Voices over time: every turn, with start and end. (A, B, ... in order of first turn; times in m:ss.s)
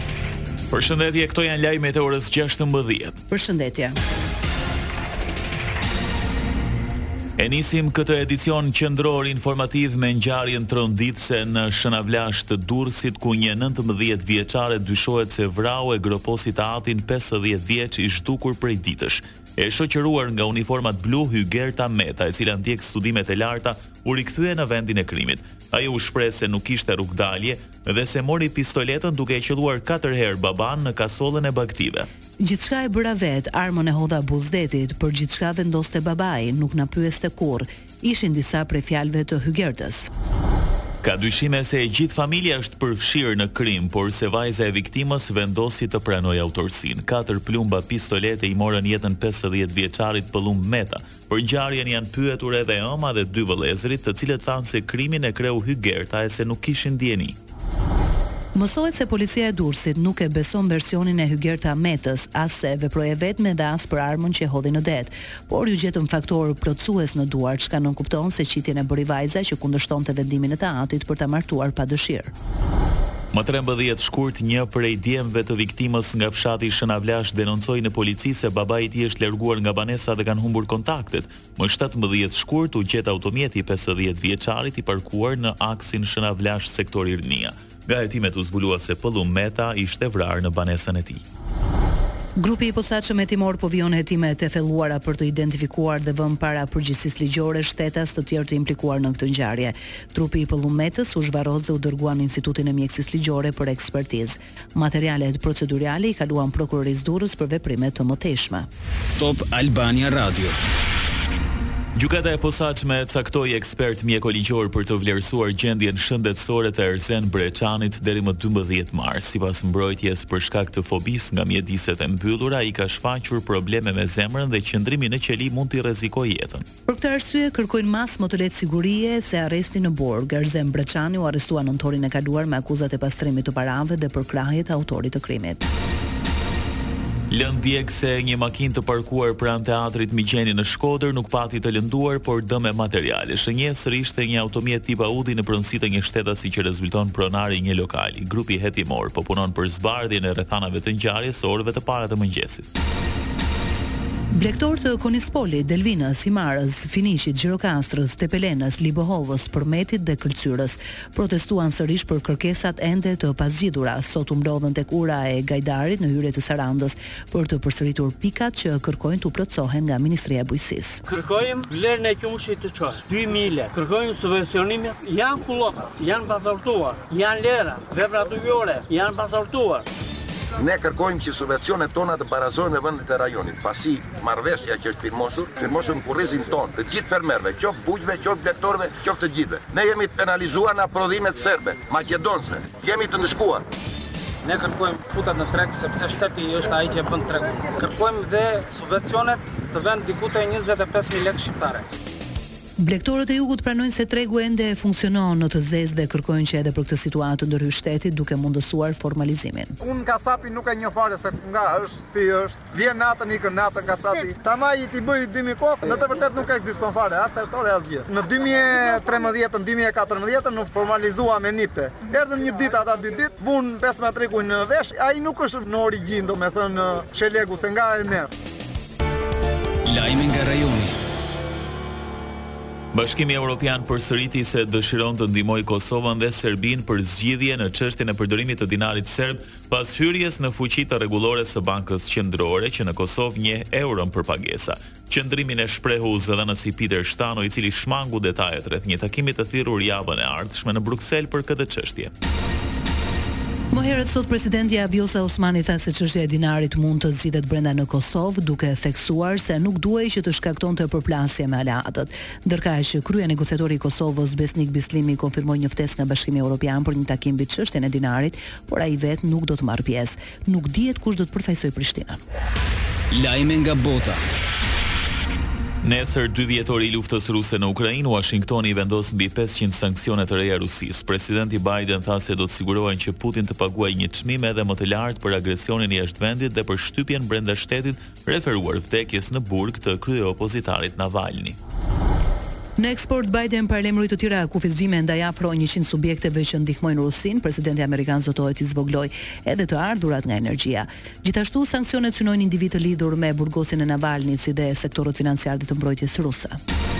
0:00.7-0:03.2 A
0:03.3-0:04.0 B
0:07.4-0:32.1 A
0:32.4-0:40.1 B
0:41.0-0:57.4 A
0:58.6-1:12.3 B
1:13.3-1:31.2 A
1:32.4-1:48.7 B
1:49.2-1:50.6 C
1:52.0-2:06.6 A
2:06.9-2:15.7 B
2:17.3-2:32.7 A
2:34.3-2:51.0 B
2:51.1-2:59.8 D
3:00.6-3:13.6 E
3:14.4-3:21.9 D
3:22.8-3:29.7 B
3:29.8-3:48.3 F
3:49.8-3:51.0 C
3:52.9-4:12.1 A
4:13.7-4:32.2 B
4:33.1-4:34.2 C
4:35.8-4:51.6 A
4:52.8-5:06.6 B